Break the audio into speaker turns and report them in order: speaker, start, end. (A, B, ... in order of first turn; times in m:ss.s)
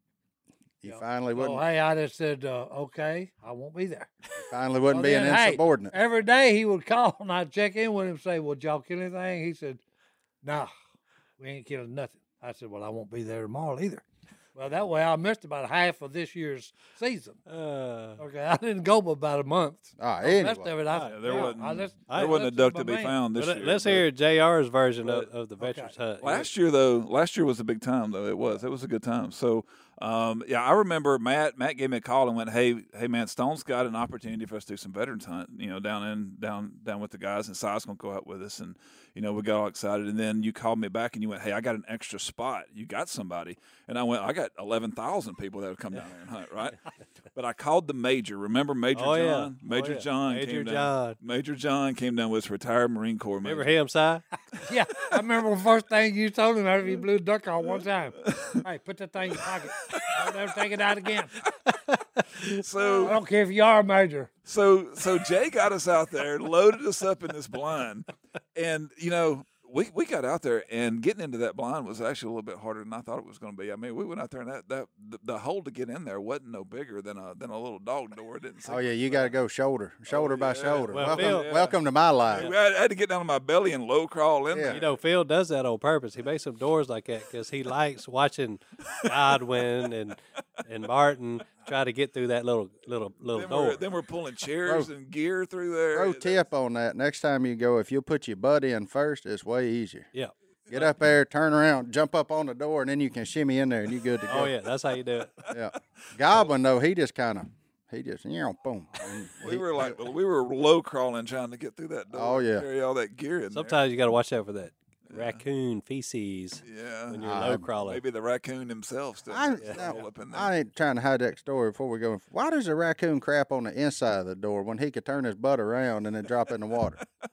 0:00.8-0:01.6 A
0:00.8-0:04.1 B
0:04.4-0:05.9 A
0:04.9-0:09.8 B
0:10.4-0:10.7 B
0:11.4-0:14.0 B
0:14.6-0:17.4 B
0:17.5-0:18.2 C
0:18.2-0:23.2 B
0:20.0-0:20.7 A
0:20.9-0:22.4 C
0:21.0-0:24.0 D
0:23.3-0:26.5 C
0:25.6-0:25.9 B
0:26.2-0:46.8 D
0:47.3-0:53.7 D
0:48.9-0:51.2 C
0:53.4-0:54.2 C
0:54.6-1:01.3 B
0:58.3-0:58.6 D
1:02.6-1:03.2 D
1:03.0-1:04.3 B
1:04.5-1:19.3 D
1:18.6-1:22.5 A
1:20.1-1:21.8 D
1:20.9-1:21.5 C
1:22.3-1:24.9 D
1:24.5-1:24.8 A
1:24.7-1:33.8 C
1:33.3-1:36.4 D
1:35.9-1:40.1 A
1:40.7-1:44.5 A
1:44.3-1:45.4 C
1:45.5-1:50.0 A
1:49.4-1:53.8 D
1:52.1-1:52.6 A
1:53.5-1:58.0 C
1:55.1-1:55.4 D
1:56.6-2:00.5 D
1:57.2-1:57.6 A
1:59.3-2:07.0 A
1:59.6-1:59.9 C